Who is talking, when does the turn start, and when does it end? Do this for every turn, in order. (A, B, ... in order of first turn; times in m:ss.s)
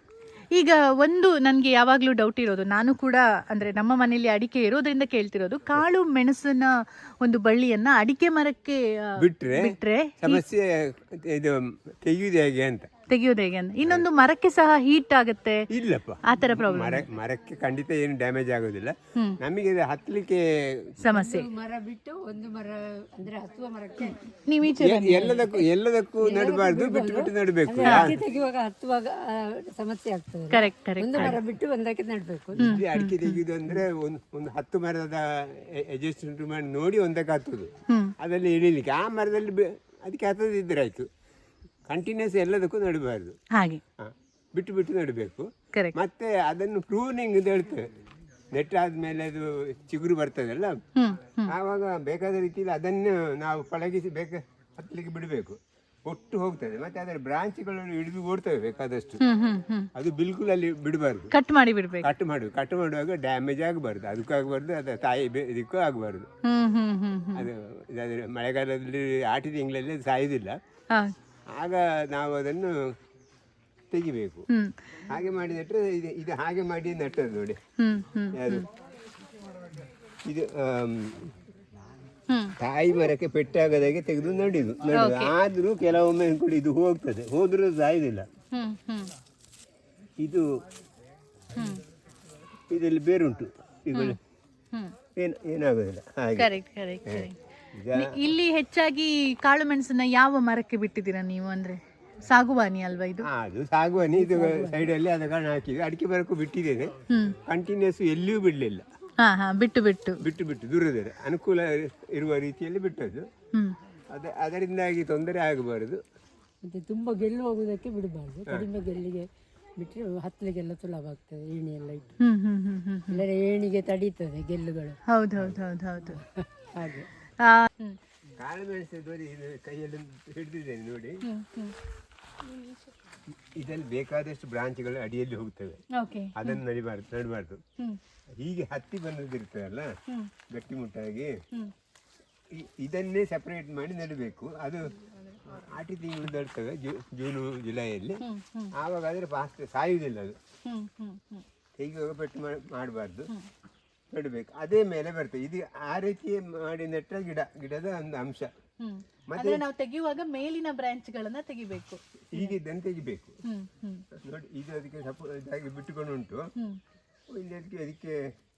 0:00.5-0:10.4 A
0:09.2-0:12.9 B
0:13.1-0:15.7 A
0:13.8-0:14.1 B
0:15.7-0:21.0 B
0:16.2-0:17.1 A
0:21.0-0:21.5 A
0:21.1-0:24.2 C
0:24.5-0:25.5 A
0:24.8-0:28.2 B
0:25.2-0:25.5 C
0:26.2-0:32.8 C
0:27.8-0:28.1 A
0:30.5-0:31.4 A
0:31.1-0:31.4 B
0:32.6-0:41.1 B
0:32.6-0:33.4 A
0:41.9-0:43.4 B
0:43.5-0:43.8 A
0:44.0-0:47.9 B
0:48.5-0:50.8 B
0:51.0-0:51.6 A
0:51.5-0:59.2 B
0:59.2-0:59.9 A
1:00.0-1:01.4 B
1:01.3-1:02.1 A
1:02.0-1:06.3 B
1:06.4-1:07.5 A
1:07.3-1:10.6 B
1:11.5-1:13.0 B
1:13.9-1:14.5 B
1:15.1-1:17.6 B
1:17.8-1:18.6 A
1:18.3-1:18.7 B
1:20.2-1:21.4 B
1:22.6-1:28.3 B
1:24.9-1:25.3 A
1:28.5-1:29.1 A
1:30.2-1:30.5 B
1:31.6-1:31.8 A
1:32.7-1:34.2 B
1:35.2-1:36.5 B
1:36.4-1:37.4 A
1:37.0-1:38.3 B
1:37.9-1:43.3 A
1:43.2-1:48.9 B
1:44.0-1:44.9 C
1:47.1-1:47.4 A
1:49.2-1:50.2 A
1:50.2-1:53.3 B
1:54.1-1:56.0 B
1:56.6-2:02.1 C
2:02.2-2:03.2 A
2:03.1-2:05.0 C
2:05.1-2:06.2 A
2:06.0-2:07.1 C
2:07.4-2:08.0 A
2:08.4-2:11.2 B
2:11.2-2:11.8 A
2:13.5-2:15.8 B
2:15.9-2:16.5 A
2:16.3-2:17.6 B
2:18.3-2:20.0 B
2:20.5-2:21.4 B
2:22.5-2:28.2 B
2:28.2-2:28.7 A
2:28.7-2:30.4 B
2:30.7-2:31.4 A
2:31.8-2:33.3 B
2:34.1-2:38.5 B
2:38.8-2:42.5 A
2:39.3-2:39.6 B
2:42.3-2:43.4 B
2:43.4-2:44.0 A
2:44.1-2:46.5 B
2:47.3-2:48.2 B